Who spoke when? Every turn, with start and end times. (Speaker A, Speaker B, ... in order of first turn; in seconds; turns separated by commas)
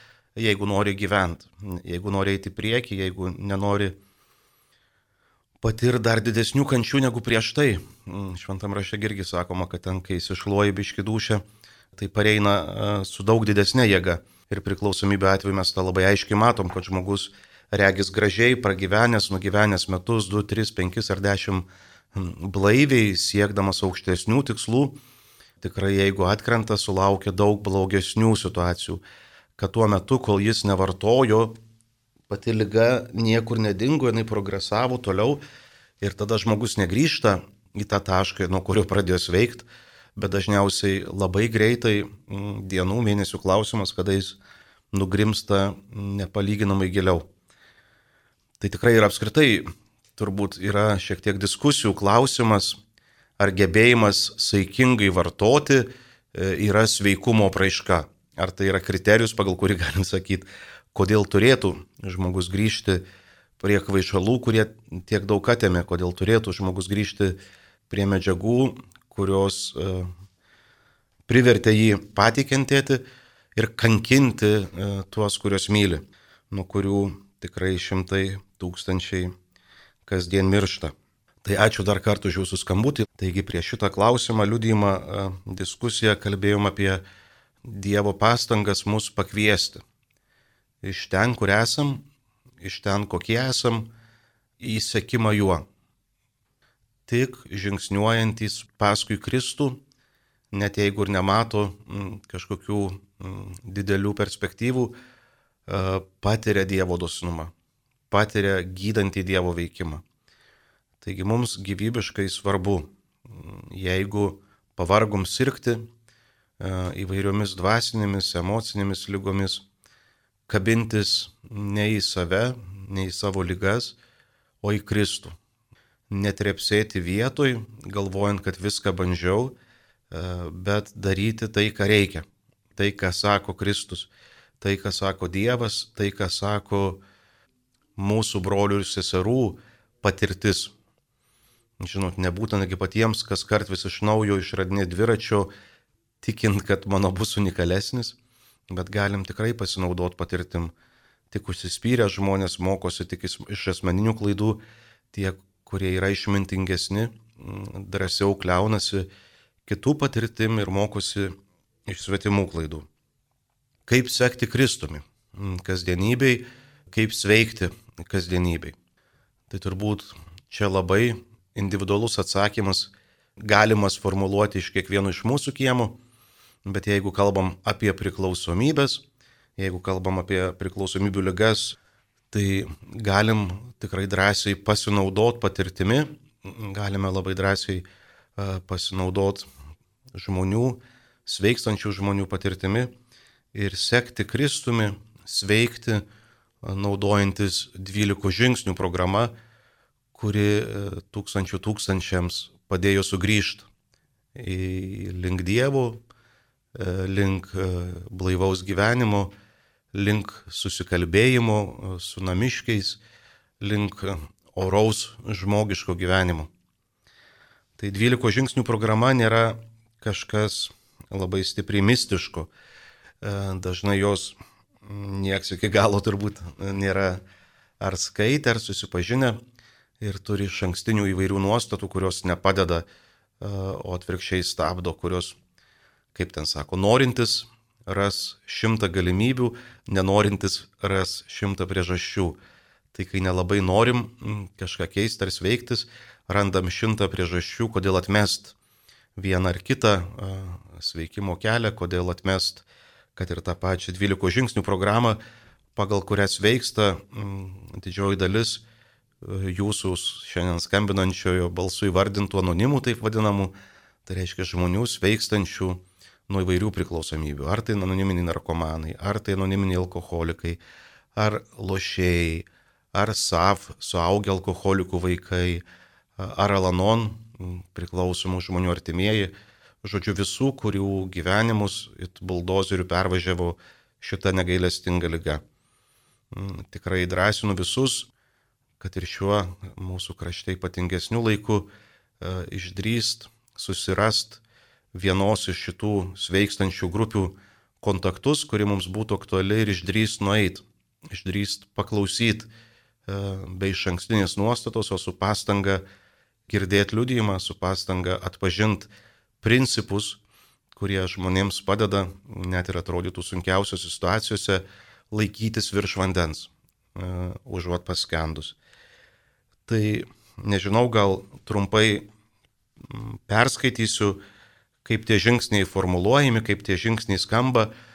Speaker A: 0.3-4.0, Speaker A: 5.6-11.4, Speaker A: 11.9-25.0, Speaker A: 25.6-29.0, Speaker A: 29.6-31.5, Speaker A: 32.3-35.4, Speaker A: 36.0-44.4, Speaker A: 44.9-47.2, Speaker A: 48.6-52.8, Speaker A: 53.4-63.0, Speaker A: 63.6-67.4, Speaker A: 67.9-70.1, Speaker A: 71.3-73.0, Speaker A: 73.5-79.3, Speaker A: 80.0-87.0, Speaker A: 87.6-89.8, Speaker A: 90.8-92.0, Speaker A: 92.6-93.9, Speaker A: 94.6-95.7, Speaker A: 97.1-99.8, Speaker A: 100.5-105.0, Speaker A: 105.7-107.5, Speaker A: 108.1-110.0, Speaker A: 111.0-115.9, Speaker A: 116.6-119.6, Speaker A: 120.5-124.0, Speaker A: 124.6-125.3, Speaker A: 126.1-129.5, Speaker A: 130.1-132.2, Speaker A: 132.8-134.1, Speaker A: 134.6-137.0, Speaker A: 138.0-140.7, Speaker A: 141.8-145.5, Speaker A: 146.2-148.2, Speaker A: 148.7-150.7, Speaker A: 151.3-159.1, Speaker A: 159.7-161.3, Speaker A: 161.9-162.8, Speaker A: 163.9-168.7, Speaker A: 169.5-172.9, Speaker A: 173.4-176.0, Speaker A: 176.6-179.0, Speaker A: 179.6-181.8, Speaker A: 182.3-187.8, Speaker A: 188.4-189.4, Speaker A: 190.1-192.9, Speaker A: 193.5-196.0, Speaker A: 196.6-199.3, Speaker A: 200.1-203.7, Speaker A: 204.3-206.0, Speaker A: 206.7-209.3, Speaker A: 209.9-213.0, Speaker A: 213.6-216.5, Speaker A: 217.8-222.5, Speaker A: 223.2-224.3, Speaker A: 224.8-227.2, Speaker A: 227.8-229.4, Speaker A: 230.0-232.8, Speaker A: 233.4-235.3, Speaker A: 236.1-242.4, Speaker A: 242.9-248.5, Speaker A: 249.2-252.6, Speaker A: 253.2-255.2, Speaker A: 255.8-258.6, Speaker A: 259.2-263.5, Speaker A: 264.1-270.6, Speaker A: 271.1-275.6, Speaker A: 276.2-285.4, Speaker A: 286.3-288.1, Speaker A: 288.8-294.4, Speaker A: 294.9-302.5, Speaker A: 303.1-305.8, Speaker A: 306.5-308.9, Speaker A: 309.4-310.2, Speaker A: 310.7-318.6, Speaker A: 319.7-322.1, Speaker A: 322.8-324.2, Speaker A: 324.8-327.7